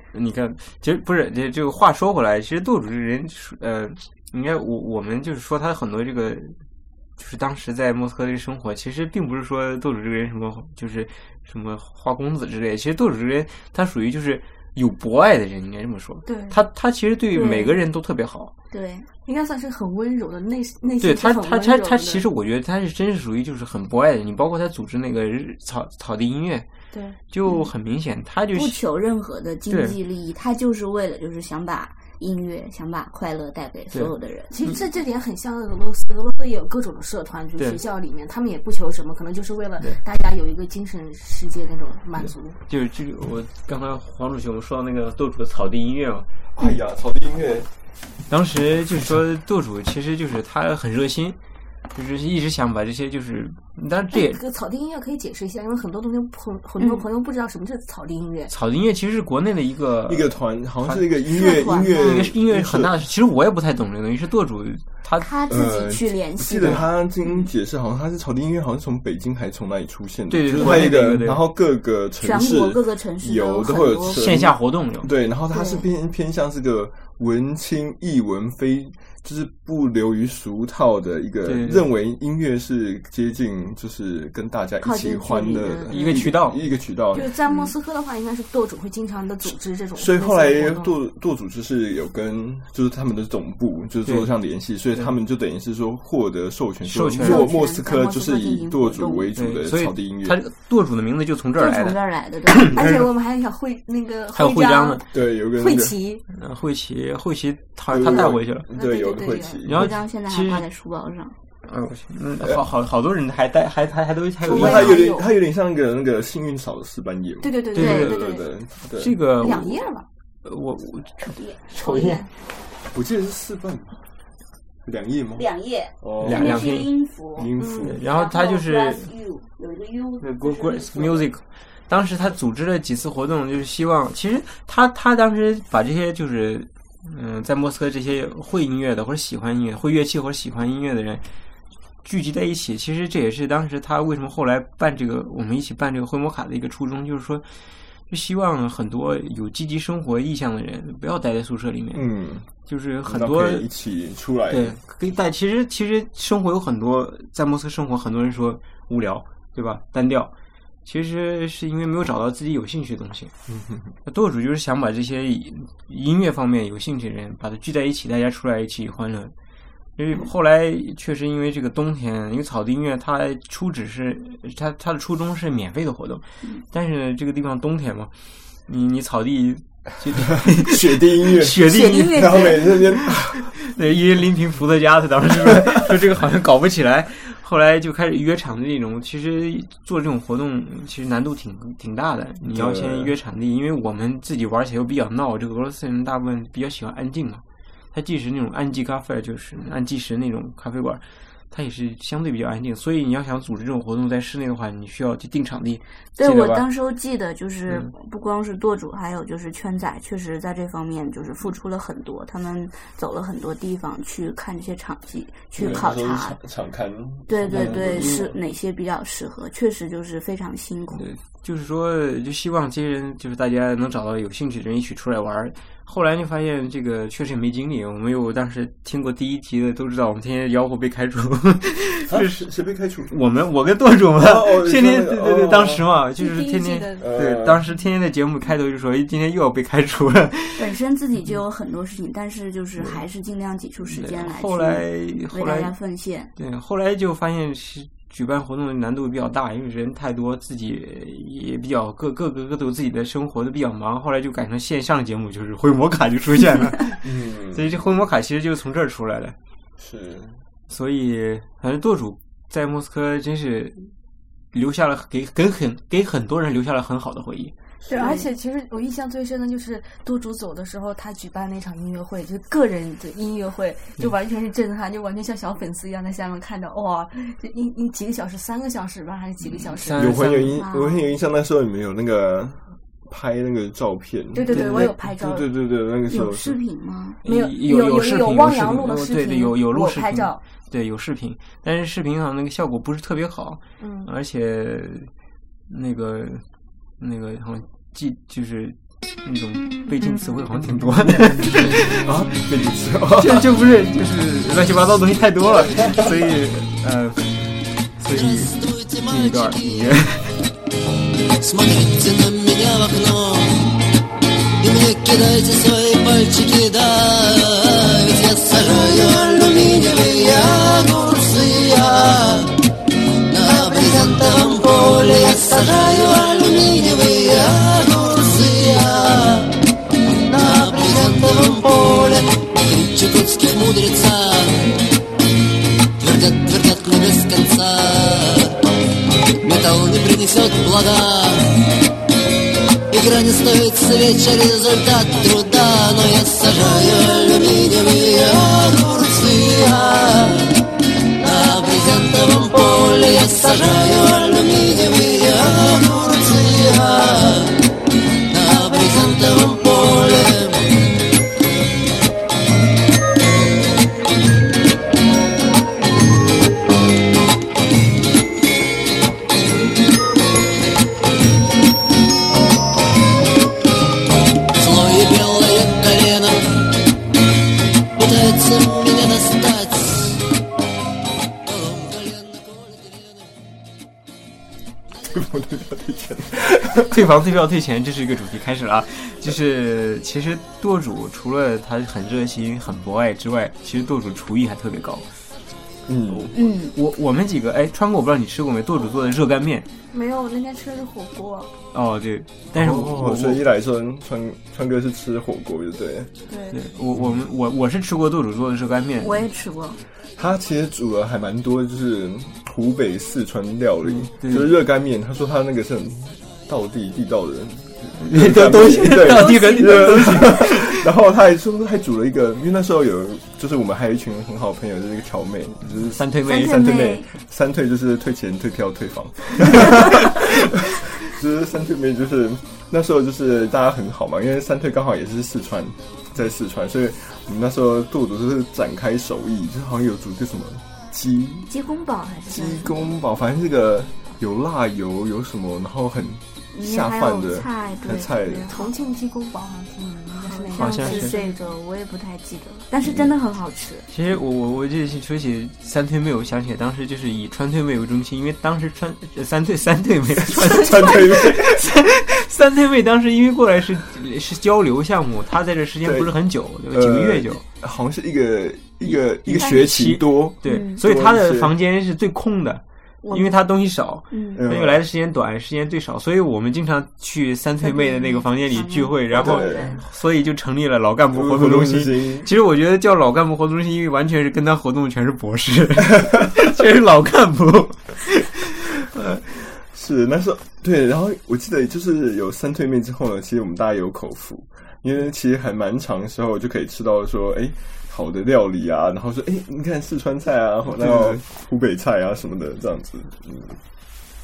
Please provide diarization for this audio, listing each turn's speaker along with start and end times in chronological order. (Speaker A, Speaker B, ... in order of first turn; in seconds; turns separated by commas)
Speaker A: 0.1-6.6, Speaker A: 7.2-18.5, Speaker B: 16.2-16.6, Speaker C: 17.3-17.8, Speaker C: 18.7-19.1, Speaker B: 19.2-22.2, Speaker A: 21.0-26.6, Speaker B: 26.9-27.2, Speaker A: 27.3-28.8, Speaker C: 28.5-34.5, Speaker A: 29.7-30.0, Speaker B: 34.5-42.6, Speaker A: 42.2-46.3, Speaker D: 46.5-47.7, Speaker A: 48.3-51.4, Speaker A: 51.9-54.4, Speaker B: 54.1-58.5, Speaker C: 56.8-57.0, Speaker A: 58.5-61.0, Speaker D: 60.1-62.9, Speaker C: 61.2-62.3, Speaker A: 61.8-65.3, Speaker C: 65.2-66.8, Speaker D: 65.5-87.3, Speaker A: 70.3-71.4, Speaker C: 72.2-74.3, Speaker A: 74.1-75.1, Speaker C: 75.5-75.8, Speaker A: 81.4-81.9, Speaker C: 84.8-86.1, Speaker A: 85.9-86.6, Speaker B: 87.1-91.0, Speaker C: 87.5-87.7, Speaker D: 90.0-100.4, Speaker A: 96.8-97.5, Speaker C: 97.2-99.3, Speaker A: 99.3-102.9, Speaker C: 101.6-102.7, Speaker B: 102.7-105.0, Speaker A: 104.3-105.0, Speaker D: 105.1-106.0, Speaker B: 105.5-106.2, Speaker A: 106.3-108.7, Speaker D: 107.9-109.8, Speaker B: 108.7-109.7, Speaker A: 109.6-110.6, Speaker C: 109.7-111.3, Speaker A: 111.7-115.0, Speaker D: 114.4-119.2, Speaker B: 114.5-115.3, Speaker B: 117.4-118.4, Speaker A: 117.7-118.2, Speaker C: 117.8-118.3, Speaker A: 118.9-119.8, Speaker B: 119.4-120.0, Speaker A: 120.4-122.2, Speaker C: 121.3-122.2, Speaker B: 121.9-122.2, Speaker D: 122.9-124.0, Speaker D: 124.8-125.4, Speaker C: 125.3-131.2, Speaker D: 126.0-126.7, Speaker A: 126.2-126.9, Speaker D: 127.3-128.0, Speaker B: 127.6-127.9, Speaker A: 127.8-129.1, Speaker A: 130.2-141.2, Speaker A: 142.0-147.4, Speaker A: 148.1-152.1, Speaker D: 151.9-152.5, Speaker A: 152.6-153.6, Speaker D: 153.0-154.8, Speaker A: 154.5-160.3, Speaker A: 160.8-163.3, Speaker D: 163.5-163.9, Speaker A: 164.1-169.3, Speaker A: 170.0-178.1, Speaker A: 178.6-182.6, Speaker D: 180.5-183.5, Speaker A: 183.4-206.7, Speaker D: 192.4-193.1, Speaker C: 206.2-216.4, Speaker D: 215.6-218.2, Speaker C: 217.3-221.1, Speaker A: 217.5-218.3, Speaker A: 220.9-232.4, Speaker D: 232.1-233.1, Speaker A: 233.1-240.8, Speaker D: 234.2-235.9, Speaker B: 236.2-237.1, Speaker D: 237.0-237.6, Speaker C: 240.6-246.3, Speaker A: 243.9-245.7, Speaker A: 246.4-259.4, Speaker D: 257.0-257.8, Speaker D: 259.8-260.4, Speaker A: 260.7-263.9, Speaker A: 264.5-267.5, Speaker B: 267.9-280.0, Speaker C: 267.9-268.3, Speaker A: 279.5-280.6, Speaker D: 279.9-286.6, Speaker C: 280.4-281.0, Speaker B: 284.3-285.5, Speaker A: 284.5-284.9, Speaker C: 286.1-287.2, Speaker B: 287.2-290.4, Speaker A: 287.2-295.1, Speaker B: 293.8-294.1, Speaker A: 295.7-296.4, Speaker A: 297.0-302.1, Speaker D: 302.0-303.5, Speaker A: 303.2-310.4, Speaker D: 305.6-306.2, Speaker E: 308.1-309.8, Speaker E: 311.4-313.8, Speaker E: 314.6-322.6, Speaker E: 323.3-329.6, Speaker E: 330.2-334.8, Speaker E: 336.0-338.6, Speaker E: 339.4-341.6, Speaker E: 342.9-350.6, Speaker E: 351.1-357.6, Speaker E: 358.3-360.7, Speaker E: 374.6-376.7, Speaker E: 377.9-380.2, Speaker E: 381.4-383.2, Speaker D: 385.0-387.0, Speaker A: 386.8-395.1, Speaker D: 395.9-396.3, Speaker A: 396.1-399.7, Speaker C: 396.3-396.7, Speaker B: 399.9-401.5, Speaker A: 401.7-403.4, Speaker D: 402.5-406.1, Speaker B: 406.3-406.6, Speaker A: 406.5-409.2, Speaker C: 409.0-409.8, Speaker D: 410.1-441.5, Speaker A: 413.8-414.5, Speaker A: 418.0-420.9, Speaker C: 418.8-420.3, Speaker A: 426.0-426.8, Speaker C: 426.2-427.1, Speaker C: 441.5-442.9, Speaker D: 442.3-448.5, Speaker C: 446.5-448.7, Speaker B: 448.5-451.4, Speaker C: 450.2-453.9, Speaker A: 450.6-451.1, Speaker A: 453.9-467.4, Speaker D: 460.3-461.6, Speaker D: 465.8-466.1, Speaker D: 466.7-471.5, Speaker A: 468.8-489.2, Speaker C: 470.4-470.8, Speaker C: 473.0-473.4, Speaker C: 474.1-474.4, Speaker D: 474.3-474.8, Speaker C: 477.6-479.8, Speaker D: 479.1-479.8, Speaker D: 481.1-482.3, Speaker D: 489.4-503.6, Speaker A: 500.8-501.2